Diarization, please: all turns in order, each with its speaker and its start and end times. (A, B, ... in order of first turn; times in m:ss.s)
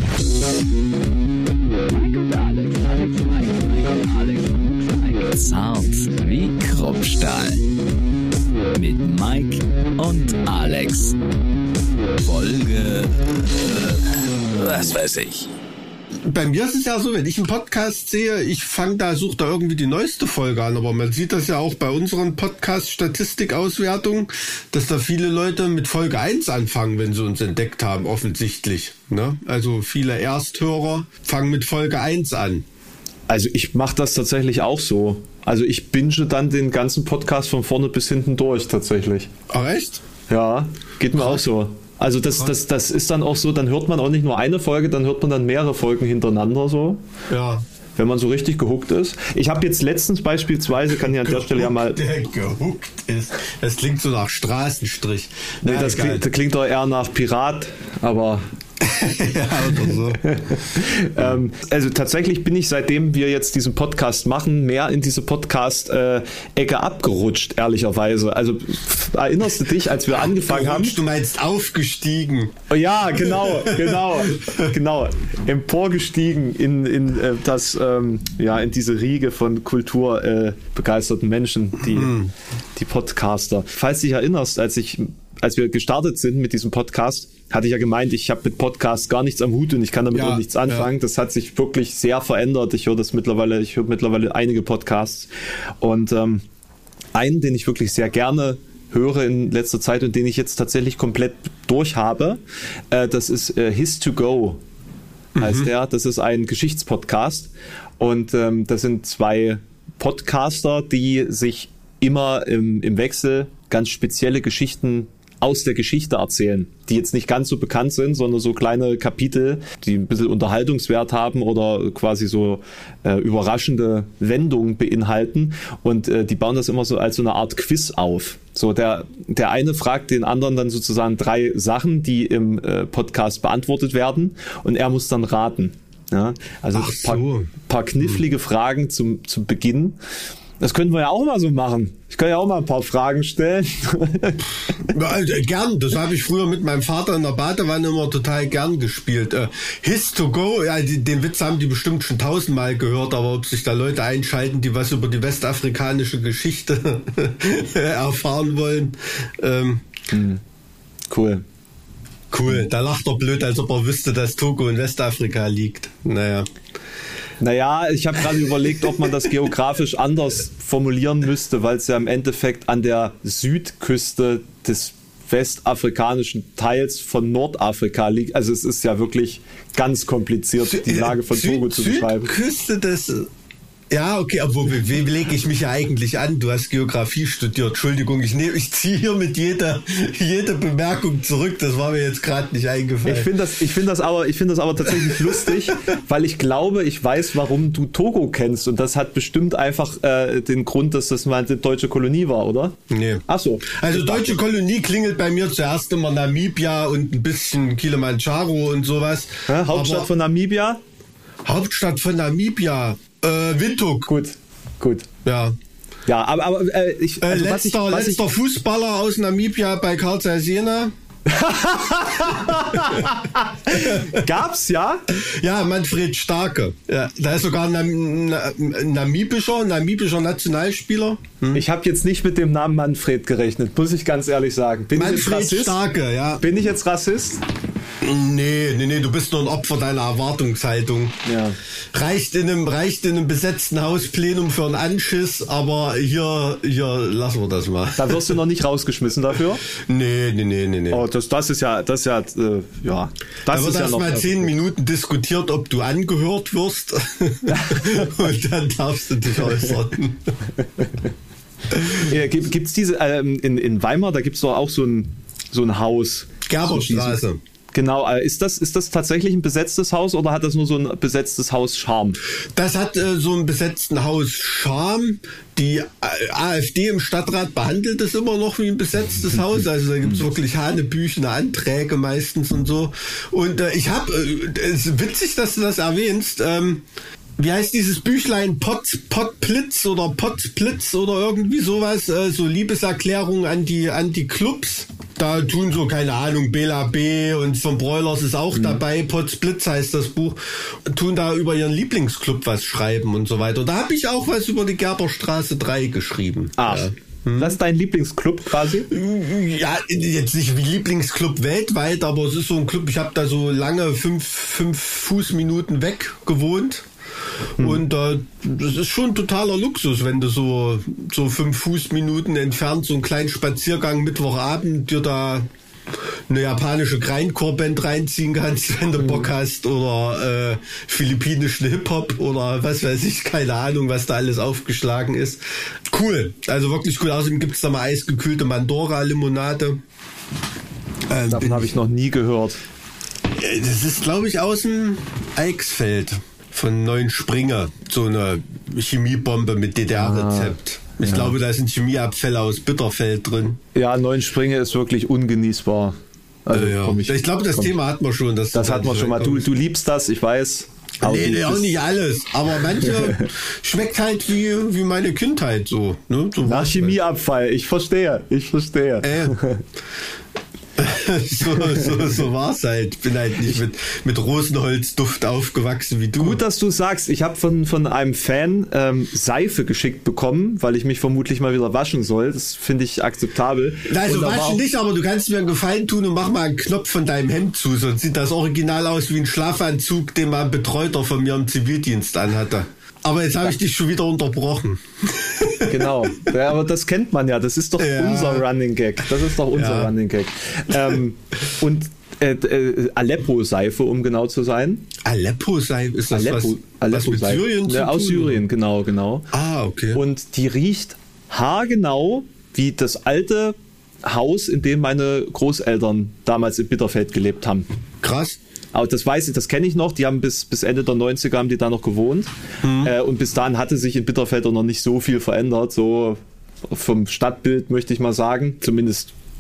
0:01.9-0:07.6 A
0:08.7-0:11.2 A
0:12.2-0:15.5 A
0:16.2-0:32.6 B
0:33.3-0:39.3 C
0:39.5-0:40.0 B
0:40.3-0:47.0 C
0:41.2-0:41.4 B
0:47.3-0:47.6 B
0:48.0-0:52.0 C
0:51.2-0:56.2 B
0:55.6-0:58.4 C
0:58.8-1:00.2 B
1:00.2-1:11.0 C
1:10.2-1:12.6 B
1:12.7-1:22.2 C
1:13.2-1:14.7 B
1:21.8-1:22.3 B
1:22.8-1:36.4 C
1:30.1-1:30.9 B
1:37.2-1:42.4 C
1:42.9-1:44.6 C
1:45.4-1:45.7 B
1:45.4-2:20.0 C
2:16.7-2:17.5 B
2:20.6-2:24.8 C
2:24.9-2:39.8 B
2:40.1-2:40.4 C
2:41.1-2:41.4 C
2:42.3-2:46.5 B
2:47.4-3:02.4 C
3:00.6-3:03.3 B
3:03.9-3:13.3 B
3:13.0-3:24.4 C
3:15.0-3:15.6 B
3:22.9-3:30.1 B
3:29.5-3:30.8 C
3:31.4-3:34.1 B
3:34.1-3:35.1 C
3:35.2-3:35.6 B
3:36.1-3:38.2 C
3:37.2-3:40.9 B
3:41.3-3:45.0 C
3:42.5-3:43.1 B
3:43.7-3:44.3 B
3:45.1-3:51.6 B
3:51.5-3:55.8 C
3:54.9-3:56.5 B
3:56.4-3:57.4 C
3:58.0-4:01.2 B
4:01.2-4:01.6 C
4:01.9-4:08.4 B
4:08.0-4:09.6 C
4:09.7-4:11.0 B
4:10.9-4:14.5 C
4:13.5-4:20.3 B
4:17.5-4:18.1 C
4:21.7-4:22.0 B
4:21.9-4:27.2 C
4:26.5-4:27.4 B
4:27.7-4:32.2 C
4:32.5-4:46.8 B
4:47.4-5:07.6 B
4:58.5-4:58.8 C
5:06.6-5:08.9 C
5:08.9-5:16.9 B
5:17.6-5:25.5 B
5:26.3-5:39.8 B
5:29.0-5:29.3 C
5:41.1-5:41.7 B
5:41.3-5:42.6 C
5:43.3-5:53.6 B
5:50.0-5:51.4 C
5:53.8-5:57.7 C
5:56.5-5:59.5 B
5:58.5-6:01.8 C
6:01.0-6:07.0 B
6:02.8-6:03.3 C
6:06.4-6:09.6 C
6:09.0-6:09.4 B
6:10.8-6:16.4 B
6:16.2-6:24.6 C
6:23.9-6:36.3 B
6:35.6-6:44.9 C
6:37.8-6:38.4 B
6:39.5-6:39.9 B
6:45.0-6:48.4 B
6:46.1-6:49.3 C
6:49.3-6:50.0 B
6:49.9-6:57.7 C
6:58.0-6:58.4 B
6:58.7-7:09.1 C
7:02.6-7:02.9 B